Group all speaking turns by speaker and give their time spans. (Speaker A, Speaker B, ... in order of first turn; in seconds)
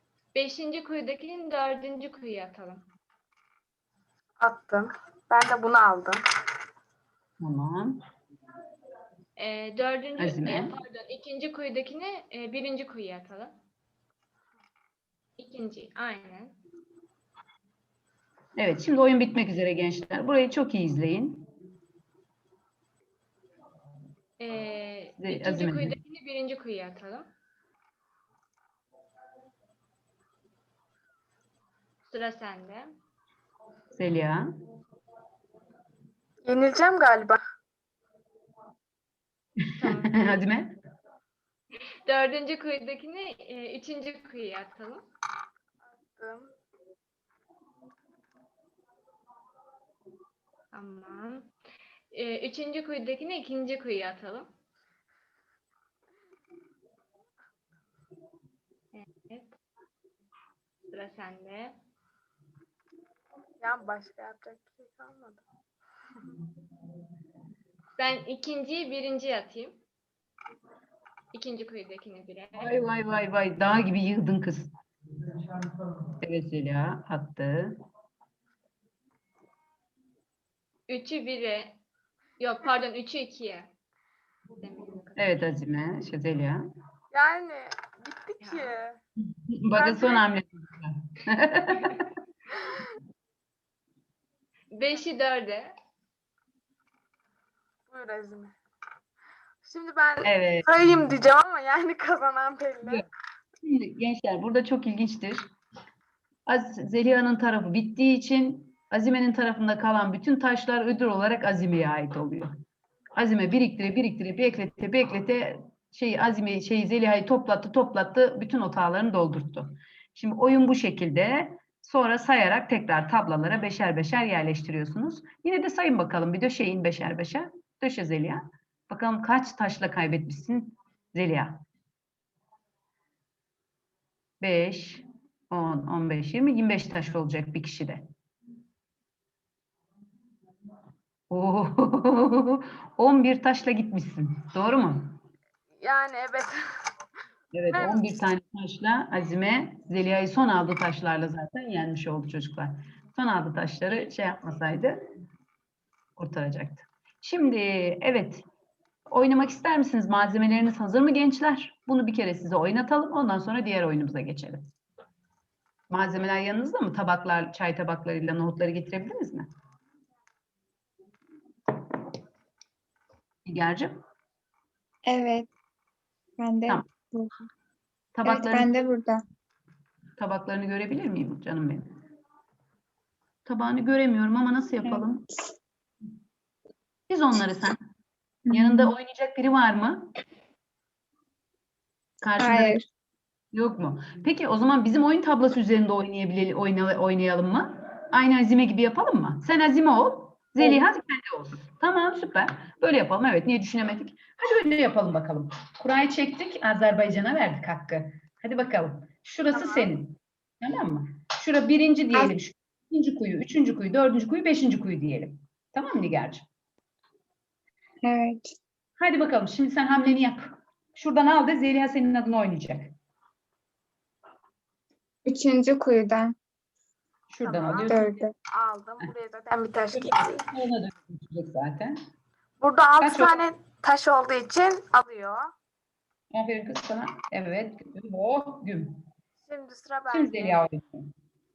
Speaker A: 0.3-2.8, 9.4-13.5, 15.4-16.6, 24.4-27.2, 32.1-32.9, 39.8-40.4, 42.1-45.0, 50.7-51.5, 52.1-54.5, 58.9-59.6, 60.9-61.8, 68.0-69.8, 71.3-72.7, 80.9-81.8, 82.4-83.7, 84.6-85.4, 88.4-88.7, 94.7-95.7
Speaker B: 4.4-6.2, 36.4-37.4, 45.9-46.5, 63.6-65.4, 87.1-89.0, 89.8-90.2, 97.9-98.5, 99.6-103.1, 145.8-146.5, 147.7-148.1, 209.5-209.9, 227.4-230.4, 232.6-235.5, 239.4-240.6
Speaker C: 7.4-8.0, 10.2-10.7, 18.6-21.5, 25.2-25.9, 34.0-34.5, 39.6-40.7, 72.5-74.7, 76.2-77.8, 85.2-86.6, 89.5-92.1, 100.2-100.7, 103.6-105.5, 106.5-112.6, 113.2-131.6, 134.4-138.1, 141.3-145.2, 147.5-155.0, 156.2-158.4, 159.1-164.7, 165.9-169.5, 173.4-174.0, 178.1-178.7, 180.2-181.9, 183.4-185.2, 187.1-187.8, 188.5-190.1, 192.2-192.8, 193.5-216.4, 219.0-222.9, 227.3-228.0, 229.9-232.0, 233.0-233.4, 236.3-239.0, 240.1-241.1
Speaker D: 175.1-175.5, 176.4-177.4, 178.2-179.2, 184.8-185.5, 188.5-188.9, 192.4-192.8, 218.0-218.6, 225.2-226.3, 227.8-228.3